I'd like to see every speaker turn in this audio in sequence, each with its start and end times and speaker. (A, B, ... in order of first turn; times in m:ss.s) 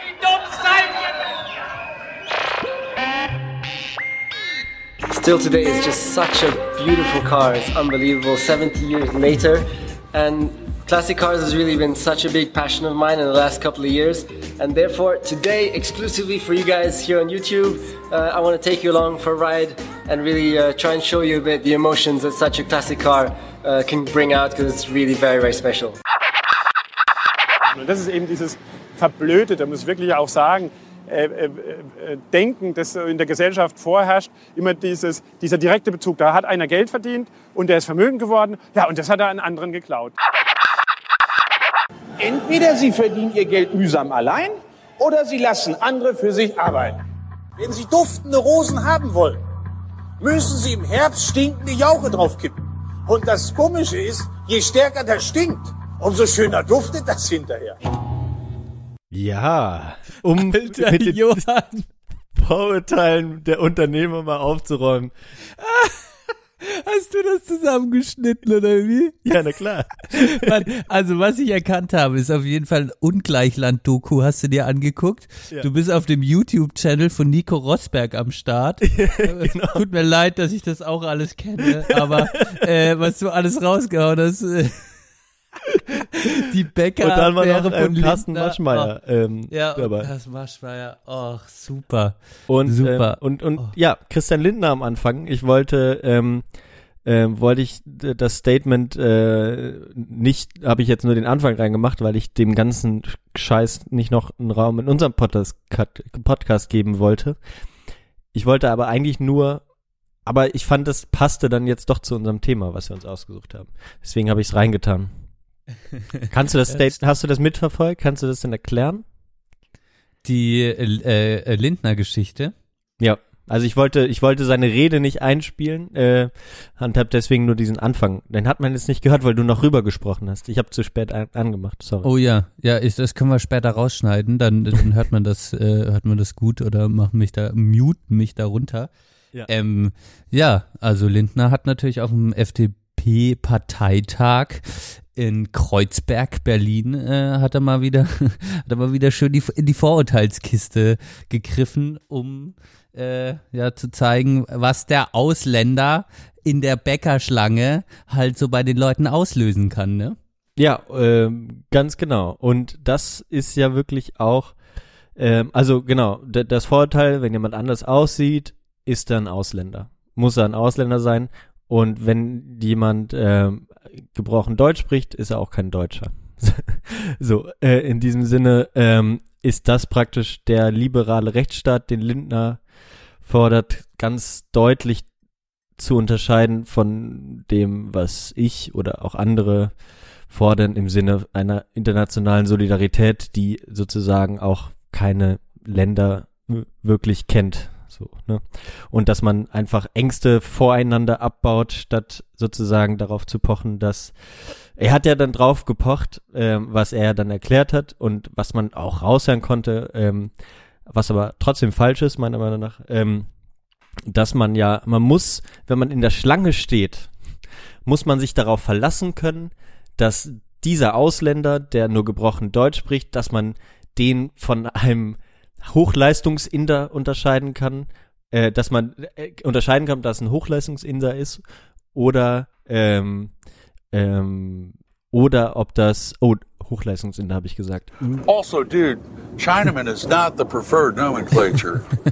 0:00.2-0:01.0 A
0:05.1-0:26.0 B
0:27.7-0:40.1 C
0:42.2-0:47.0 A
0:47.6-0:49.4 A
0:50.2-0:57.8 A
0:59.1-1:01.5 D
1:00.4-1:01.8 E
1:02.3-1:05.1 D
1:05.5-1:09.3 E
1:09.2-1:10.7 D
1:10.1-1:25.0 E
1:18.8-1:19.8 D
1:21.9-1:22.2 D
1:25.9-1:28.9 E
1:27.0-1:30.1 D
1:29.5-1:33.7 E
1:32.5-1:36.4 D
1:37.0-1:47.4 D
1:48.3-1:49.6 D
1:50.2-1:55.1 D
1:56.3-1:59.0 D
2:00.2-2:02.5 E
2:03.0-2:12.1 D
2:12.0-2:18.9 E
2:19.4-2:40.2 E
2:40.6-2:44.6 D
2:45.2-3:02.6 D
3:03.2-3:05.1 D
3:05.8-3:09.8 D
3:10.3-3:30.3 D
3:30.8-3:33.3 D
3:34.1-3:37.1 D
3:37.8-3:53.3 D
3:53.9-3:58.1 D
3:58.2-4:01.9 F